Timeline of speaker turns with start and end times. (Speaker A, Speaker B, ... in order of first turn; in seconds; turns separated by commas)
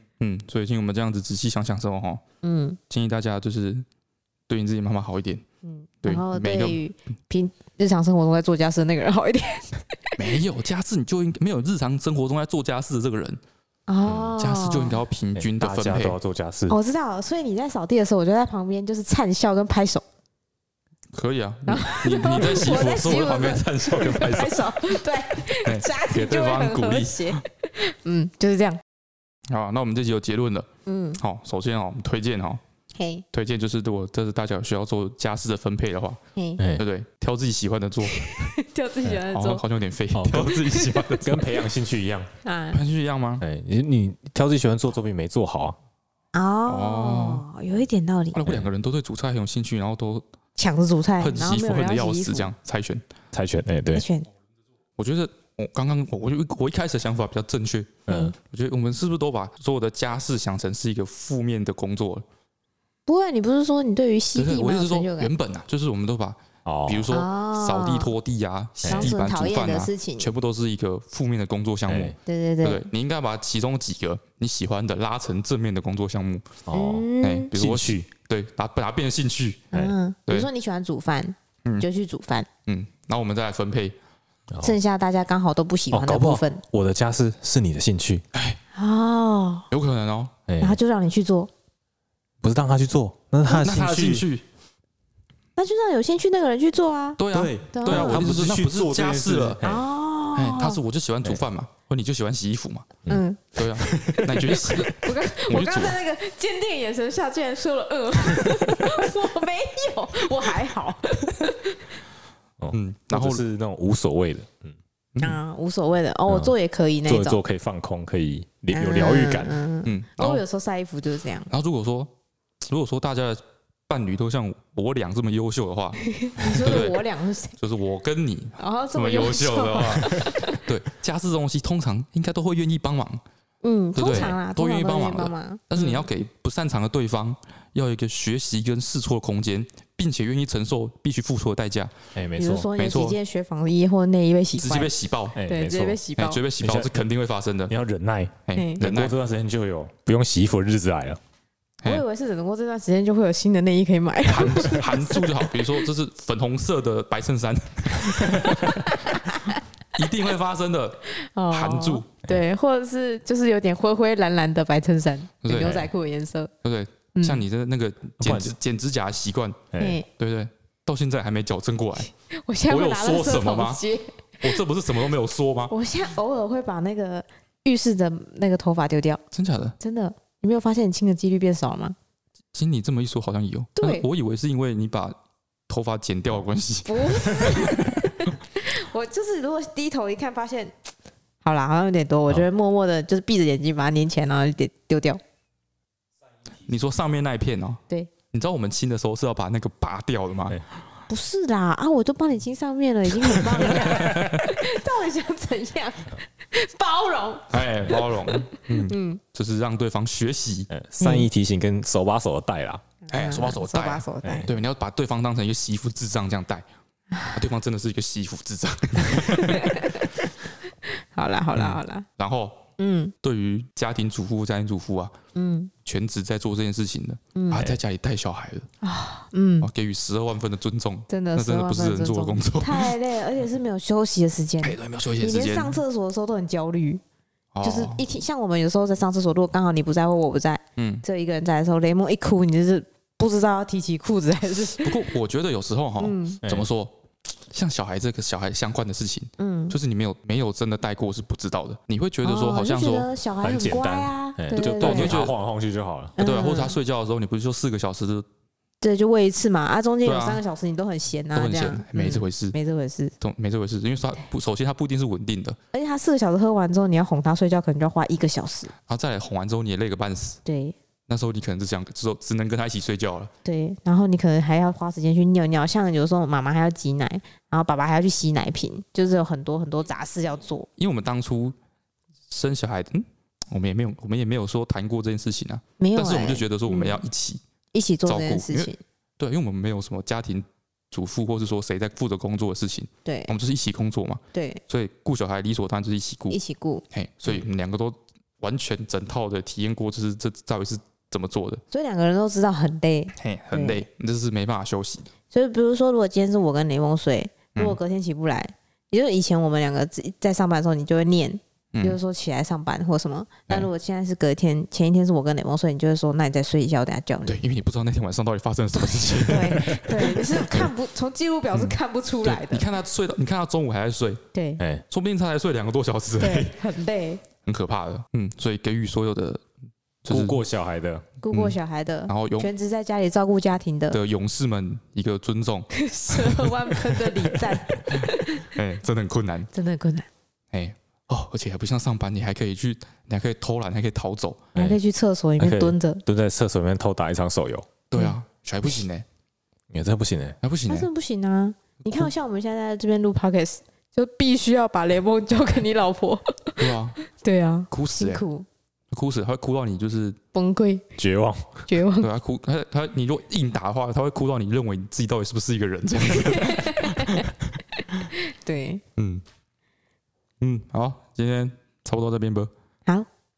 Speaker A: 0.2-2.2, Speaker B: 2.4-2.8, Speaker A: 2.9-3.9, Speaker A: 4.5-5.5, Speaker B: 5.7-10.2, Speaker A: 6.0-6.8, Speaker A: 10.2-13.4, Speaker B: 13.9-15.0, Speaker A: 14.4-16.2, Speaker C: 15.3-16.8, Speaker B: 16.7-20.0, Speaker A: 21.1-24.9, Speaker B: 21.7-28.8, Speaker A: 25.5-27.4, Speaker A: 29.5-30.7, Speaker B: 30.9-31.2, Speaker A: 31.2-32.6, Speaker B: 33.0-33.2, Speaker A: 33.3-36.2, Speaker B: 36.4-36.6, Speaker C: 36.6-36.8, Speaker A: 36.8-38.5, Speaker B: 38.1-39.6, Speaker A: 39.3-41.5, Speaker C: 40.1-40.7, Speaker B: 40.7-41.0, Speaker C: 41.2-42.3, Speaker B: 42.4-42.8, Speaker A: 42.7-43.4, Speaker C: 43.4-45.8, Speaker B: 46.3-48.4, Speaker A: 46.7-47.5, Speaker A: 48.3-50.2, Speaker B: 50.6-52.5, Speaker A: 51.2-53.0, Speaker C: 53.3-54.0, Speaker B: 53.9-54.3, Speaker A: 55.0-62.3, Speaker C: 58.1-58.4, Speaker B: 58.1-58.3, Speaker B: 63.1-65.3, Speaker A: 64.3-76.6, Speaker C: 66.7-67.1, Speaker B: 67.1-68.1, Speaker C: 68.8-69.2, Speaker B: 68.9-70.3, Speaker C: 71.9-72.2, Speaker B: 72.2-72.9, Speaker C: 76.7-78.1, Speaker B: 76.7-77.5, Speaker A: 77.2-79.7, Speaker B: 79.7-82.5, Speaker A: 82.7-84.0, Speaker C: 84.5-84.8, Speaker B: 84.6-86.6, Speaker C: 85.9-88.3, Speaker A: 88.3-88.6, Speaker B: 88.8-89.7, Speaker A: 89.7-90.3, Speaker C: 90.5-90.8, Speaker B: 90.6-91.5, Speaker C: 92.4-94.3, Speaker A: 93.5-94.5, Speaker B: 95.6-97.2, Speaker A: 97.2-99.6, Speaker C: 97.3-99.8, Speaker B: 97.7-98.3, Speaker B: 99.6-100.8, Speaker A: 100.3-103.0, Speaker C: 103.1-104.8, Speaker B: 103.1-103.4, Speaker A: 103.5-106.0, Speaker B: 104.5-111.9, Speaker C: 112.6-114.8, Speaker A: 112.7-113.4, Speaker B: 115.2-117.4, Speaker C: 116.3-119.6, Speaker B: 118.7-121.5, Speaker A: 119.8-120.4, Speaker A: 121.5-126.1, Speaker B: 126.0-127.6, Speaker A: 126.6-127.0, Speaker A: 127.6-133.2, Speaker B: 128.6-130.6, Speaker B: 133.6-136.1, Speaker A: 134.0-141.9, Speaker C: 142.2-142.7, Speaker B: 142.4-144.9, Speaker A: 142.8-143.2, Speaker A: 144.6-145.4, Speaker C: 145.3-146.0, Speaker B: 145.4-146.4, Speaker A: 146.2-147.7, Speaker C: 146.6-146.9, Speaker C: 147.7-151.2, Speaker A: 148.5-149.2, Speaker B: 148.6-148.8, Speaker B: 151.8-155.5, Speaker A: 154.2-158.8, Speaker C: 158.2-158.4, Speaker B: 158.4-159.6, Speaker A: 159.5-162.1, Speaker B: 161.1-166.5, Speaker A: 165.4-165.9, Speaker C: 165.5-165.9, Speaker A: 166.6-172.1, Speaker B: 167.2-167.4, Speaker C: 168.2-168.6, Speaker C: 169.7-170.0, Speaker B: 169.8-170.1, Speaker B: 172.3-174.6, Speaker A: 172.7-173.8, Speaker A: 174.4-175.7, Speaker B: 175.7-179.2, Speaker A: 179.3-179.8, Speaker B: 179.8-182.0, Speaker A: 182.5-185.2, Speaker B: 183.8-184.1, Speaker A: 185.7-187.9, Speaker B: 186.9-190.7, Speaker B: 191.4-195.2, Speaker A: 196.7-200.6, Speaker B: 201.1-209.2, Speaker A: 203.5-204.5, Speaker A: 207.5-208.6, Speaker C: 208.7-209.0, Speaker A: 209.3-210.7, Speaker C: 210.7-212.8, Speaker B: 211.0-211.3, Speaker B: 213.1-214.5, Speaker A: 213.1-216.7, Speaker A: 217.3-219.9, Speaker B: 219.0-222.1, Speaker A: 222.2-222.6, Speaker B: 222.8-223.1, Speaker A: 223.2-225.2, Speaker B: 225.3-225.7, Speaker A: 225.8-228.7, Speaker B: 227.3-227.7, Speaker B: 228.8-229.7, Speaker A: 229.6-232.9, Speaker B: 231.1-237.0, Speaker A: 234.6-235.8, Speaker A: 237.5-238.0, Speaker B: 237.6-245.0, Speaker A: 240.8-241.0, Speaker A: 244.8-246.9, Speaker B: 246.0-246.4, Speaker C: 246.4-246.7, Speaker A: 247.5-253.1, Speaker B: 249.4-249.8, Speaker B: 252.2-255.2, Speaker C: 253.4-256.2, Speaker A: 254.6-255.3, Speaker B: 256.2-256.8, Speaker A: 256.2-258.3, Speaker B: 258.8-263.1, Speaker A: 260.0-260.4, Speaker A: 261.4-262.6, Speaker A: 263.2-265.6, Speaker B: 265.7-268.7, Speaker A: 268.9-270.4, Speaker B: 270.4-270.8, Speaker A: 271.1-273.3, Speaker B: 273.4-280.7, Speaker A: 280.8-281.6, Speaker A: 282.3-287.4, Speaker B: 285.8-287.0, Speaker B: 287.7-288.8, Speaker A: 288.1-296.4, Speaker B: 293.1-293.3, Speaker B: 294.3-294.6, Speaker B: 296.3-297.4, Speaker A: 296.9-301.6, Speaker B: 301.7-303.9, Speaker A: 303.2-305.1, Speaker B: 305.3-317.4, Speaker A: 317.3-320.7, Speaker B: 318.8-322.7, Speaker A: 321.5-324.2, Speaker B: 324.3-324.6, Speaker A: 324.9-326.5, Speaker B: 326.2-327.2, Speaker A: 327.4-329.4, Speaker A: 330.0-330.4, Speaker C: 330.1-331.1, Speaker B: 331.2-334.0, Speaker A: 331.3-331.6, Speaker A: 332.1-332.5, Speaker A: 333.9-336.5, Speaker B: 335.7-338.5, Speaker A: 338.0-339.5, Speaker B: 339.5-340.1, Speaker A: 340.5-344.5, Speaker B: 344.6-346.0, Speaker C: 345.4-347.7, Speaker A: 347.9-349.1, Speaker C: 349.7-350.4, Speaker A: 350.4-350.9, Speaker B: 350.7-358.5, Speaker A: 356.6-357.0, Speaker A: 357.7-358.2, Speaker A: 358.9-360.2, Speaker B: 360.3-360.8, Speaker C: 361.0-361.7, Speaker B: 361.7-362.1, Speaker A: 362.0-367.4, Speaker B: 366.1-367.3, Speaker B: 368.0-368.8, Speaker A: 369.0-369.2, Speaker A: 370.4-372.5